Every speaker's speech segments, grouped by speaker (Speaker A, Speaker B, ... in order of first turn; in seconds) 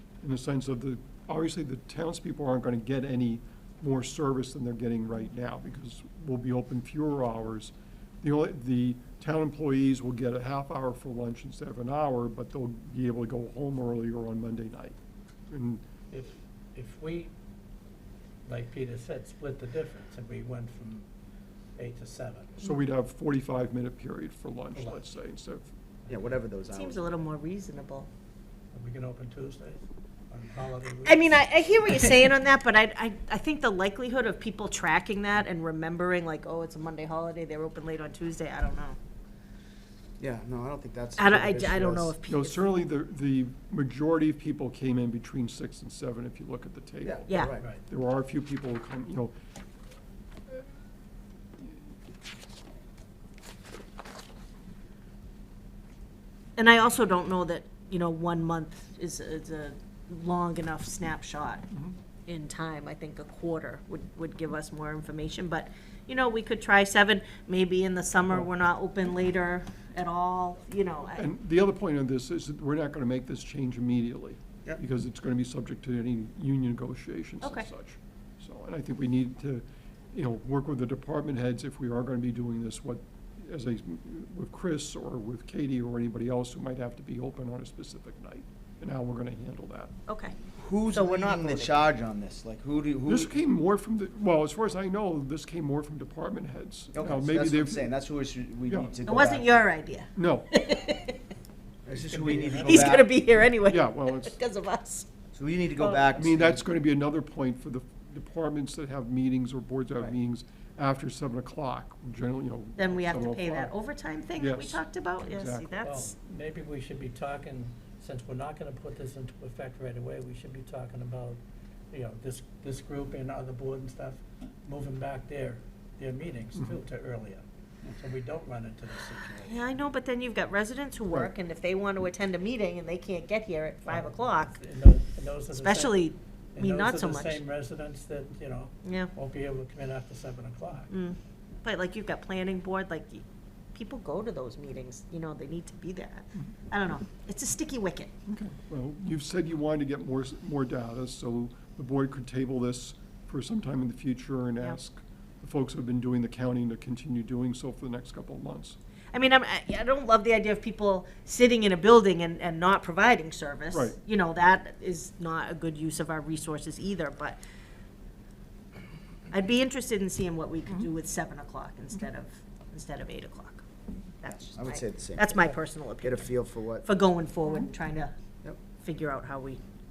Speaker A: 0.2-15.0, 15.5-15.8, 22.6-25.7, 42.2-49.3, 61.7-62.0, 71.2-89.9, 93.0-97.9, 98.7-99.0, 100.2-100.5, 103.7-104.4, 106.2-113.7, 114.3-115.8, 148.3-158.8
Speaker B: 16.1-17.3, 18.4-21.1, 21.8-22.6, 24.7-25.0, 26.1-26.4, 28.7-31.5, 101.9-103.0, 115.8-129.7, 133.8-136.0, 136.5-140.9
Speaker C: 26.1-27.2, 40.2-42.1, 47.0-47.6, 90.6-93.3, 96.9-99.6, 101.8-103.1, 105.3-106.6, 174.4-175.4, 176.0-176.8
Speaker D: 26.7-28.1, 31.0-39.0, 41.2-42.6, 47.3-47.5, 56.6-61.6, 62.2-71.3, 77.4-77.7, 90.1-90.3, 90.9-91.8, 99.0-101.2, 102.6-105.1, 105.8-106.0, 112.8-116.1, 129.4-134.5, 135.5-137.4, 138.8-139.1, 140.9-148.1, 159.1-167.4, 169.3-173.7, 174.2-178.1, 178.8-179.6